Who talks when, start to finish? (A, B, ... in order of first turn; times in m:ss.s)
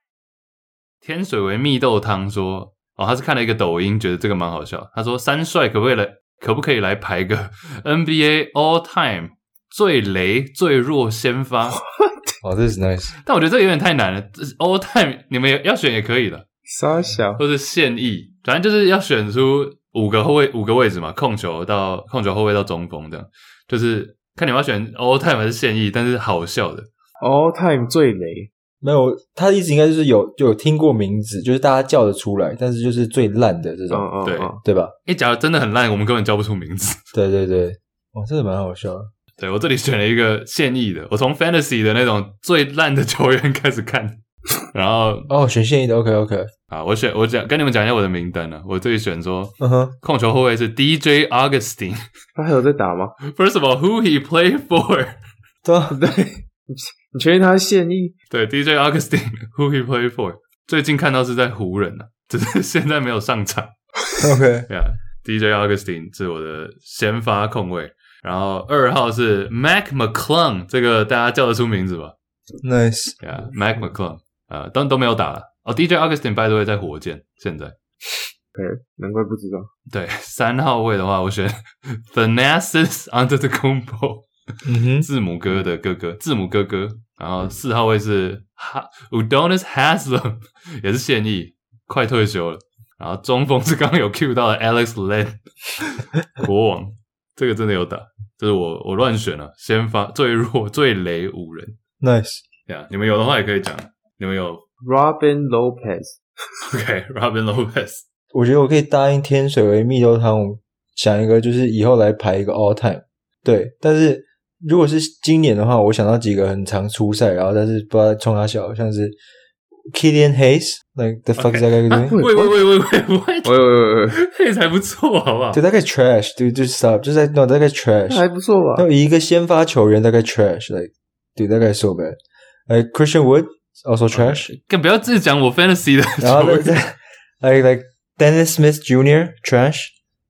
0:01.0-0:11.8 A
0:11.9-0:12.4 B
0:12.4-0:13.1 C
0:13.2-0:16.4 A
0:16.7-0:17.4 B
0:17.4-0:26.9 A
0:27.2-0:28.5 B
0:28.8-0:34.1 C
0:33.9-0:34.6 B
0:34.2-0:37.0 A
0:34.6-0:34.9 C
0:37.1-0:39.1 C
0:39.4-0:45.3 A
0:45.3-0:46.5 C
0:46.7-0:52.0 A
0:49.6-0:50.0 C
0:52.4-0:53.1 B
0:53.2-0:55.2 A
0:55.6-0:56.0 C
0:55.9-0:58.1 B
0:58.3-1:03.7 A
1:04.2-1:04.7 C
1:04.7-1:12.1 A
1:12.6-1:13.2 C
1:13.2-1:17.8 A
1:18.6-1:19.7 B
1:19.9-1:24.3 A
1:24.6-1:25.1 C
1:25.0-1:41.8 A
1:42.0-1:42.4 C
1:42.7-1:44.6 A
1:44.8-1:46.2 B
1:46.6-1:48.0 A
1:48.3-1:59.2 C
1:59.9-2:02.2 C
2:01.4-2:05.6 A
2:02.1-2:02.6 B
2:03.4-2:04.1 B
2:05.5-2:12.2 C
2:08.1-2:08.9 B
2:12.7-2:14.5 C
2:14.1-2:16.8 A
2:16.2-2:19.9 C